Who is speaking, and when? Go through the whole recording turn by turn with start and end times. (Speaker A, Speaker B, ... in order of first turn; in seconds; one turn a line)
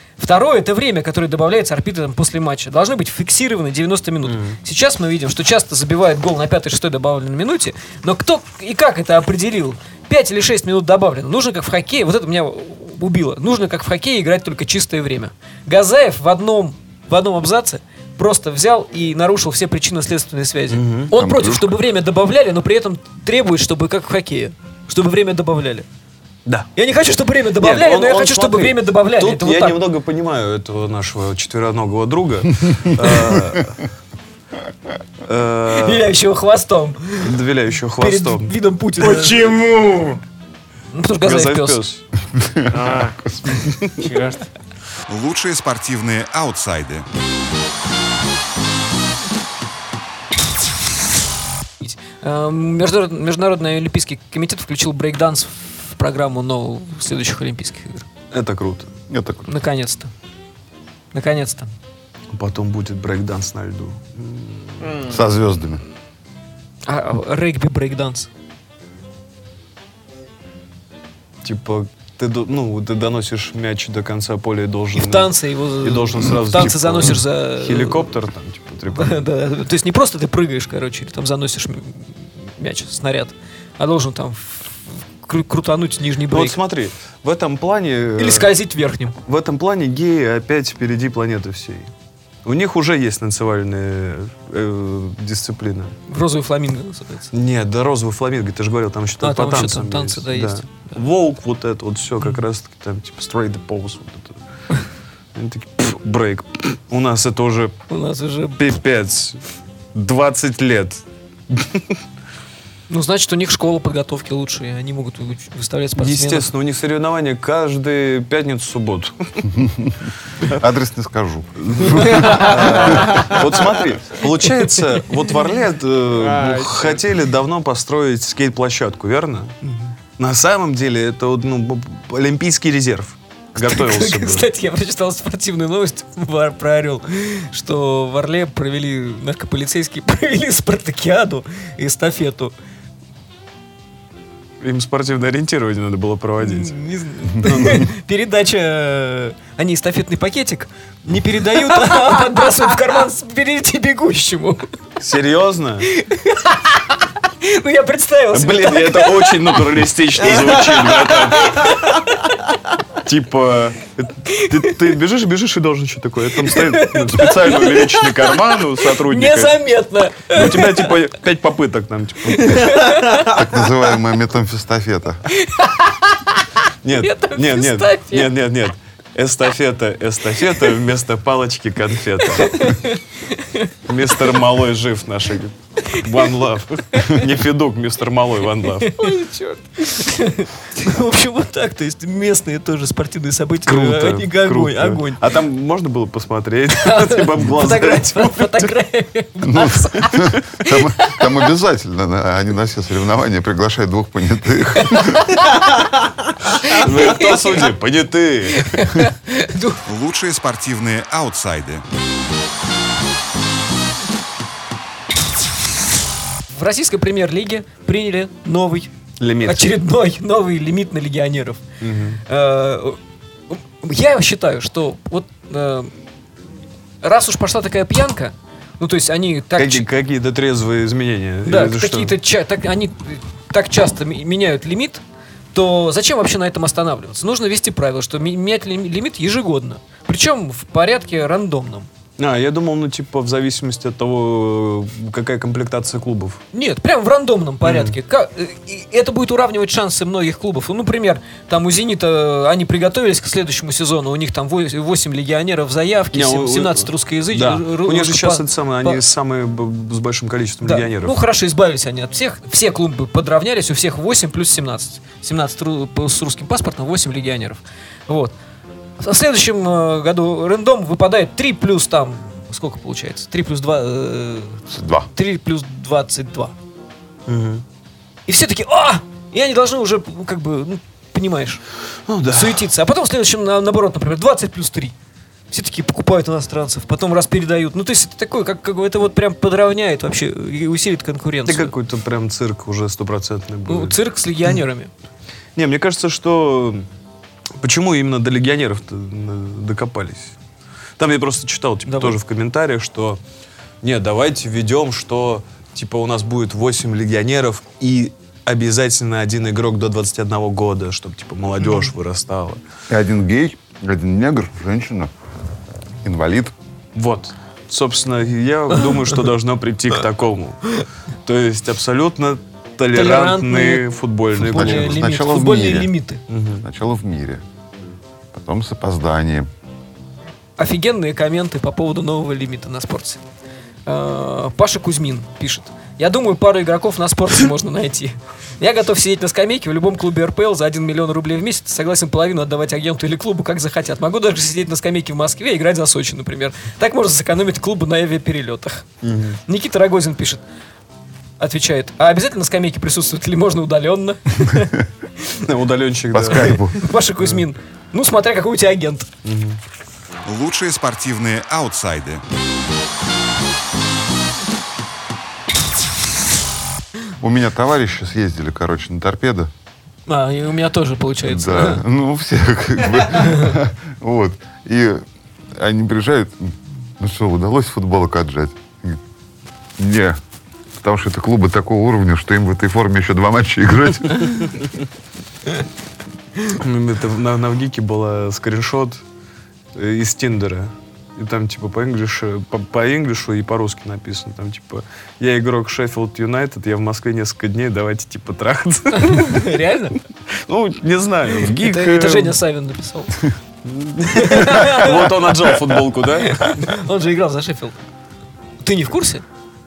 Speaker A: 0.2-25.9
Speaker B: 4.3-4.6
Speaker B: 20.7-21.1
Speaker C: 21.1-21.8
Speaker A: 26.8-29.8
Speaker B: 27.6-33.8
Speaker B: 35.2-36.1
Speaker A: 35.7-37.4
Speaker B: 37.2-38.5
Speaker A: 38.0-39.4
Speaker D: 39.0-40.2
Speaker A: 40.9-41.8
Speaker B: 41.2-42.0
Speaker C: 42.4-43.6
Speaker D: 42.7-43.2
Speaker B: 43.6-44.1
Speaker D: 44.0-44.4
Speaker E: 45.1-47.1
Speaker A: 51.8-58.1
Speaker B: 58.3-58.9
Speaker C: 59.1-59.5
Speaker A: 59.5-60.1
Speaker A: 61.1-61.7
Speaker B: 62.3-65.0
Speaker D: 64.8-65.2
Speaker C: 65.0-65.8
Speaker A: 66.9-68.3
Speaker B: 71.4-79.2
Speaker A: 75.0-78.1
Speaker A: 78.9-86.6
Speaker B: 86.3-88.5
Speaker A: 88.2-89.2
Speaker B: 89.3-91.9
Speaker B: 92.5-96.0
Speaker A: 96.1-97.3
Speaker B: 97.3-104.4
Speaker A: 99.2-100.9
Speaker B: 105.3-107.8
Speaker A: 107.9-108.6
Speaker B: 108.6-109.4
Speaker B: 109.9-112.0
Speaker A: 112.9-116.5
Speaker B: 116.0-119.6
Speaker C: 119.5-123.2
Speaker B: 121.6-129.6
Speaker A: 122.1-122.5
Speaker D: 122.9-123.3
Speaker A: 124.8-125.0
Speaker D: 126.2-127.0
Speaker B: 130.2-134.5
Speaker A: 133.6-142.5
Speaker B: 144.6-146.7
Speaker A: 146.4-154.7
Speaker B: 147.4-147.9
Speaker B: 155.0-155.9
Speaker A: 155.8-159.7
Speaker B: 158.3-161.8
Speaker A: 160.2-162.4
Speaker B: 163.0-169.6
Speaker A: 164.3-164.8
Speaker A: 166.4-170.9
Speaker B: 170.3-172.9
Speaker A: 172.4-173.3
Speaker C: 173.1-175.2
Speaker A: 175.4-175.9
Speaker B: 176.8-182.8
Speaker A: 177.0-178.3
Speaker A: 182.4-183.7
Speaker B: 183.9-189.0
Speaker A: 186.9-187.2
Speaker A: 188.8-195.2
Speaker D: 189.2-189.6
Speaker B: 193.7-198.8
Speaker A: 196.8-201.2
Speaker C: 199.4-205.3
Speaker A: 204.8-205.5
Speaker A: 206.6-207.7
Speaker B: 206.7-209.0
Speaker A: 208.5-209.8
Speaker E: 209.9-211.8
Speaker A: 216.5-218.9
Speaker B: 219.2-219.7
Speaker A: 219.4-221.6
Speaker B: 221.8-222.2
Speaker A: 222.3-223.0
Speaker A: 223.5-225.9
Speaker A: 227.0-229.9
Speaker B: 229.6-232.2
Speaker A: 231.4-235.0
Speaker A: 235.5-241.9
Speaker B: 242.2-246.4
Speaker A: 246.5-259.0
Speaker B: 247.6-248.0
Speaker B: 256.1-261.2
Speaker A: 260.6-268.3
Speaker A: 269.0-276.6
Speaker C: 274.7-275.1
Speaker B: 277.3-277.6
Speaker A: 278.3-281.6
Speaker B: 282.1-282.6
Speaker A: 282.3-284.9
Speaker A: 285.5-291.7
Speaker B: 291.5-294.0
Speaker A: 293.7-294.9
Speaker B: 295.6-296.9
Speaker B: 297.6-300.4
Speaker B: 301.0-303.2
Speaker A: 301.9-302.2
Speaker B: 303.8-312.6
Speaker C: 312.9-315.1
Speaker C: 316.0-316.5
Speaker B: 316.9-325.0
Speaker A: 318.8-319.1
Speaker A: 322.9-323.9
Speaker C: 324.4-325.9
Speaker A: 324.4-326.2
Speaker B: 326.3-326.6
Speaker C: 326.6-327.4
Speaker C: 328.3-329.5
Speaker A: 330.6-333.2
Speaker A: 333.9-348.9
Speaker B: 349.0-349.4
Speaker A: 349.5-350.4
Speaker A: 351.4-355.4
Speaker B: 355.4-356.6
Speaker C: 356.1-356.8
Speaker A: 356.3-359.1
Speaker B: 357.2-357.4
Speaker B: 359.2-359.6
Speaker E: 360.2-362.2
Speaker C: 367.2-369.5
Speaker A: 370.1-371.8
Speaker C: 371.2-375.0
Speaker A: 373.2-373.5
Speaker C: 375.6-379.0
Speaker C: 379.8-380.2
Speaker C: 380.8-384.5
Speaker B: 386.5-389.0
Speaker B: 389.8-399.5
Speaker A: 398.9-400.0
Speaker B: 400.3-402.4
Speaker A: 401.6-403.3
Speaker B: 403.6-406.7
Speaker A: 404.1-407.8
Speaker A: 408.6-409.2